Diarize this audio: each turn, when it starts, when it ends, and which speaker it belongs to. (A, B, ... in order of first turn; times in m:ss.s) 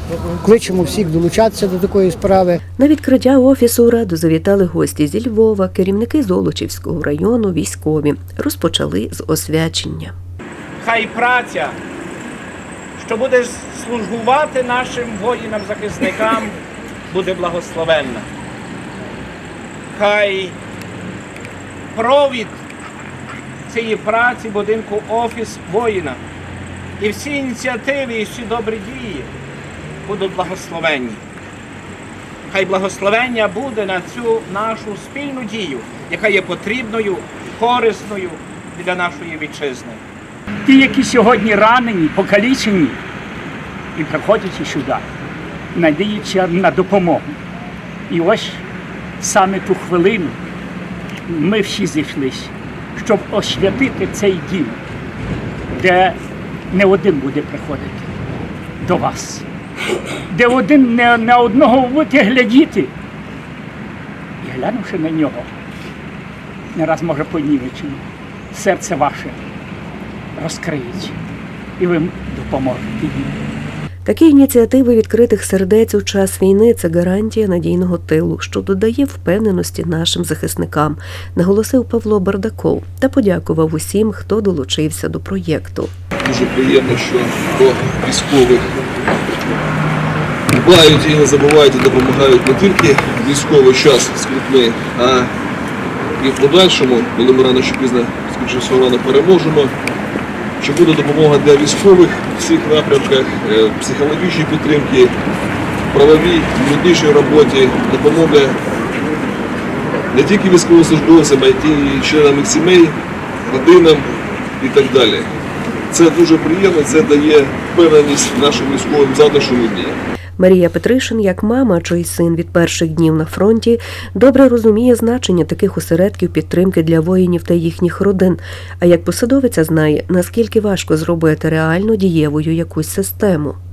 0:00.4-0:02.6 A
0:02.8-0:10.1 B
0:10.8-0:11.8 C
0:13.0-0:16.5 C
0:17.1-0:18.3 C
0:19.9-0:20.6 C
0:21.9-0:22.6 C
0:23.7-0:26.2 C
0:27.0-0:29.3 C
0:30.1-0:31.2 C
0:32.5-0:40.0 C
0:40.6-0:43.0 D
0:43.9-0:45.0 D
0:45.7-0:47.3 D
0:48.1-0:48.6 D
0:49.2-0:50.4 D
0:51.3-0:54.8 D
0:55.7-0:56.2 D
0:56.7-0:58.1 D
0:58.8-0:59.4 D
1:00.3-1:02.9 D
1:04.4-1:05.5 D
1:06.7-1:09.4 D
1:10.4-1:11.2 D
1:11.8-1:13.3 D
1:14.0-1:25.9 B
1:26.2-1:28.7 E
1:30.5-1:35.3 E
1:36.2-1:39.7 E
1:40.6-1:45.1 E
1:45.9-1:48.6 E
1:50.1-1:53.0 E
1:53.5-1:54.1 E
1:54.6-1:55.3 E
1:55.9-2:00.0 E
2:00.4-2:13.6 B